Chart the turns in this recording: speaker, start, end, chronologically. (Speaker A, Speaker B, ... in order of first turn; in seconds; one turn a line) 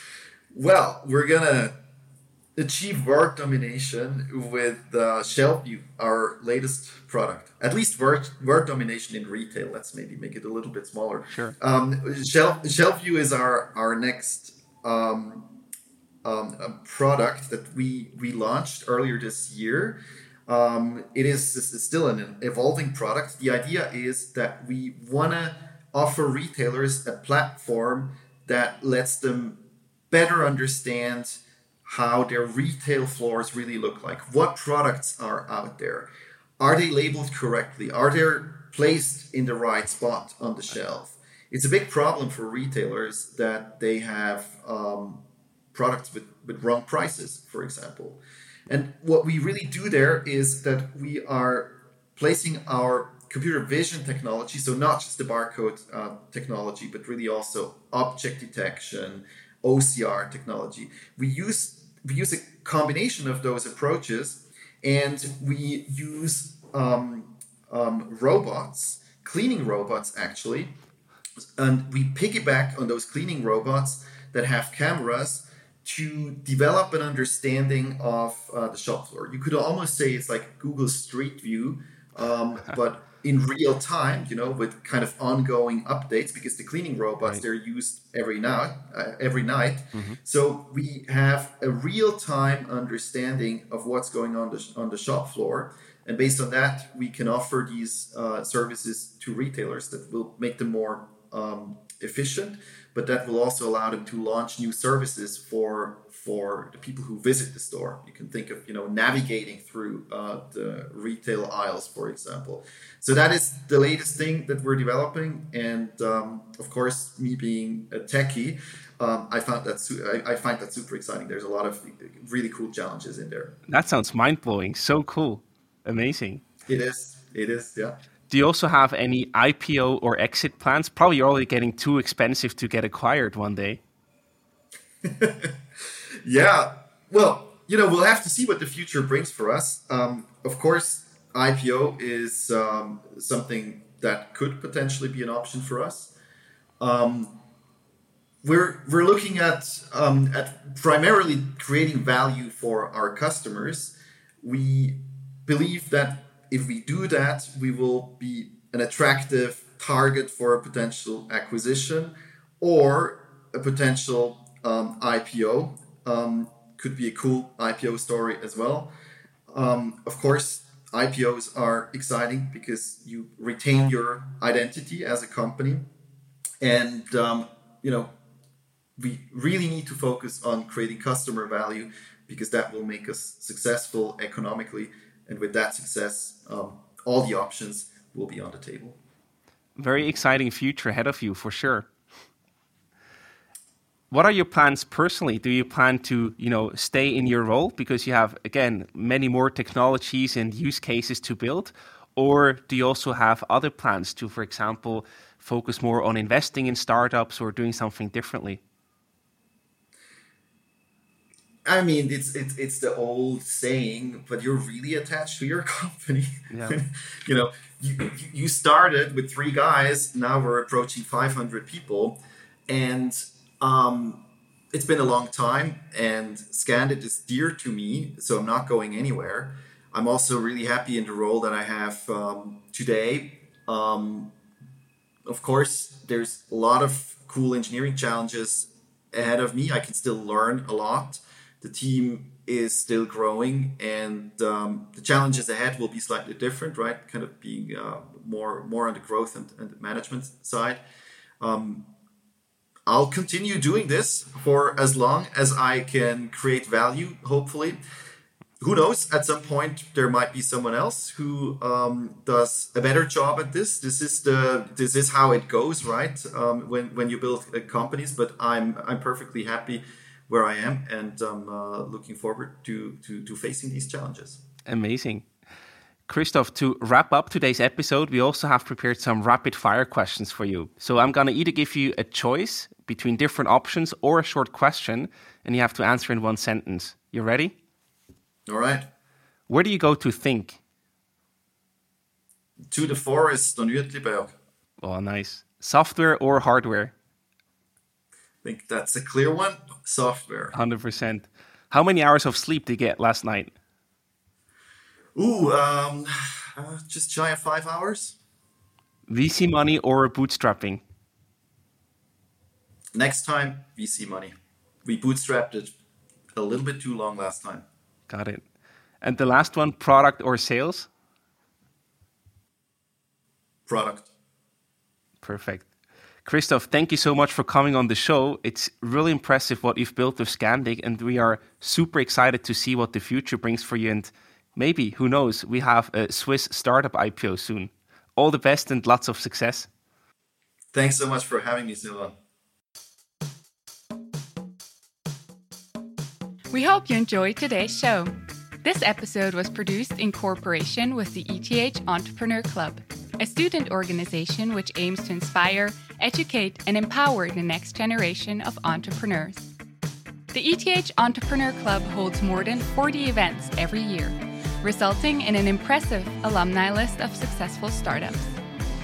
Speaker A: 0.5-1.8
Speaker A: 2.6-15.5
Speaker A: 16.2-29.6
Speaker A: 30.1-36.1
Speaker A: 36.6-70.7
Speaker A: 71.6-123.6
Speaker B: 123.7-126.4
Speaker A: 126.7-128.0
Speaker B: 128.3-133.8
Speaker A: 135.0-135.6
Speaker A: 136.2-146.1
Speaker A: 146.8-147.4
Speaker A: 148.4-168.9
Speaker A: 169.5-175.8
Speaker A: 176.6-178.1
Speaker A: 179.0-189.0
Speaker B: 189.8-191.9
Speaker B: 194.1-208.6
Speaker A: 211.7-234.3
Speaker B: 216.5-216.8
Speaker A: 235.3-250.8
Speaker A: 251.4-251.9
Speaker A: 252.9-257.8
Speaker A: 258.6-274.4
Speaker B: 274.7-275.3
Speaker B: 276.1-287.6
Speaker A: 288.5-288.9
Speaker B: 289.5-290.6
Speaker A: 292.7-294.4
Speaker B: 294.8-296.9
Speaker A: 298.4-300.6
Speaker B: 300.5-303.5
Speaker A: 305.2-308.2
Speaker B: 309.1-310.8
Speaker A: 312.9-315.7
Speaker A: 316.4-317.6
Speaker B: 318.1-318.4
Speaker B: 319.0-320.9
Speaker A: 323.7-324.1
Speaker B: 325.2-325.7
Speaker B: 326.2-339.7
Speaker A: 340.7-342.1
Speaker C: 346.5-359.5
Speaker C: 360.3-368.3